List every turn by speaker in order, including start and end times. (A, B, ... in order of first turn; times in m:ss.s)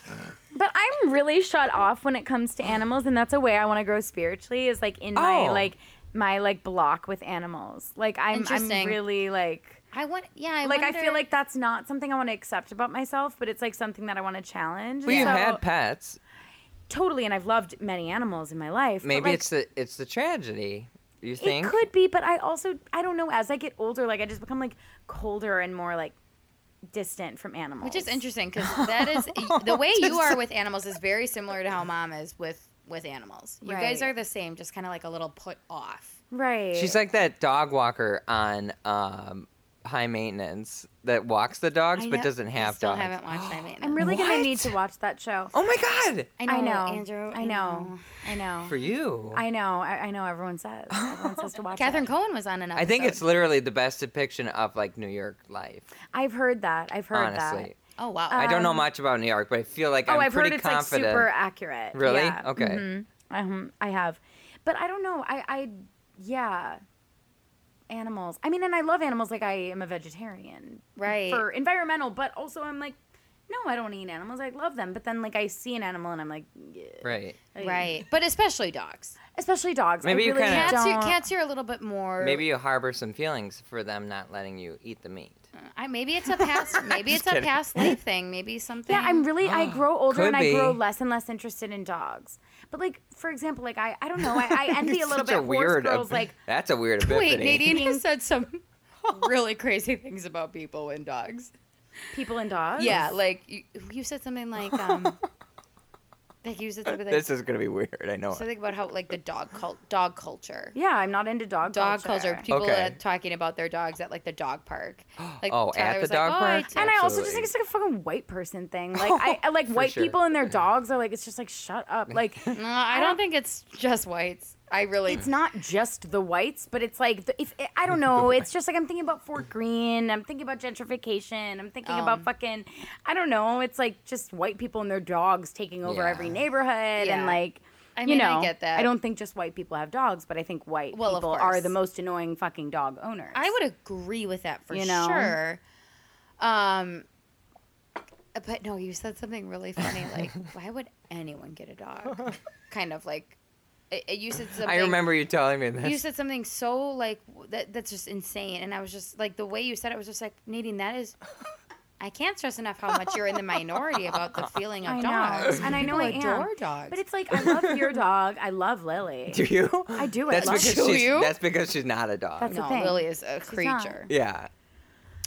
0:00.5-0:09.8 A
0:05.2-0:05.7 B
0:08.3-0:09.0 C
0:09.9-0:11.2 C
0:10.6-0:15.6 A
0:15.1-0:16.2 B
0:15.1-0:15.4 C
0:16.9-0:19.5 A
0:19.0-0:21.9 B
0:21.4-0:26.2 A
0:26.9-0:28.2 A
0:27.8-0:36.2 C
0:28.6-0:30.4 B
0:33.6-0:34.1 A
0:36.3-0:37.0 A
0:36.7-0:44.8 B
0:42.5-0:44.1 C
0:43.8-0:45.5 A
0:45.5-0:46.3 B
0:46.4-0:48.2 C
0:46.5-0:48.8 A
0:48.7-0:49.4 B
0:49.3-0:52.1 A
0:50.9-0:51.5 B
0:51.8-0:53.2 C
0:52.8-0:55.9 B
0:56.1-0:57.7 A
0:57.1-0:57.8 B
0:58.0-0:58.5 C
0:58.3-0:58.9 A
0:58.3-1:01.3 B
1:00.1-1:06.8 A
1:01.9-1:02.9 B
1:07.9-1:13.0 A
1:11.0-1:11.4 C
1:13.5-1:17.9 A
1:17.0-1:17.4 B
1:17.6-1:19.2 C
1:19.3-1:21.2 A
1:20.0-1:20.8 B
1:20.4-1:22.4 C
1:22.2-1:25.5 B
1:25.6-1:29.3 C
1:26.4-1:28.0 B
1:28.9-1:36.3 A
1:29.4-1:30.8 B
1:34.2-1:37.8 B
1:37.0-1:41.5 C
1:37.5-1:38.0 A
1:42.1-1:43.0 A
1:42.8-1:45.2 C
1:44.7-1:45.1 B
1:46.4-1:47.3 C
1:46.9-1:48.4 B
1:48.3-1:50.8 C
1:50.7-1:52.5 A
1:51.7-1:56.9 C
1:52.5-1:53.0 B
1:55.2-1:57.5 B
1:56.8-2:03.2 A
1:59.0-2:00.5 B
2:02.5-2:05.3 C
2:05.1-2:23.6 A
2:11.8-2:12.3 C
2:15.8-2:16.4 B
2:17.0-2:17.4 C
2:18.0-2:18.9 C
2:20.9-2:21.8 C
2:23.3-2:25.6 C
2:24.7-2:25.4 A
2:26.4-2:27.1 C
2:28.3-2:33.4 C
2:33.9-2:35.0 C
2:34.6-2:36.0 B
2:35.8-2:41.2 C
2:42.0-2:47.0 C
2:44.1-2:44.5 B
2:44.8-2:50.9 A
2:45.4-2:46.0 B
2:47.3-2:48.0 B
2:49.3-2:52.6 B
2:50.3-2:51.4 C
2:52.4-2:54.0 A
2:52.5-2:54.1 C
2:54.1-2:54.5 B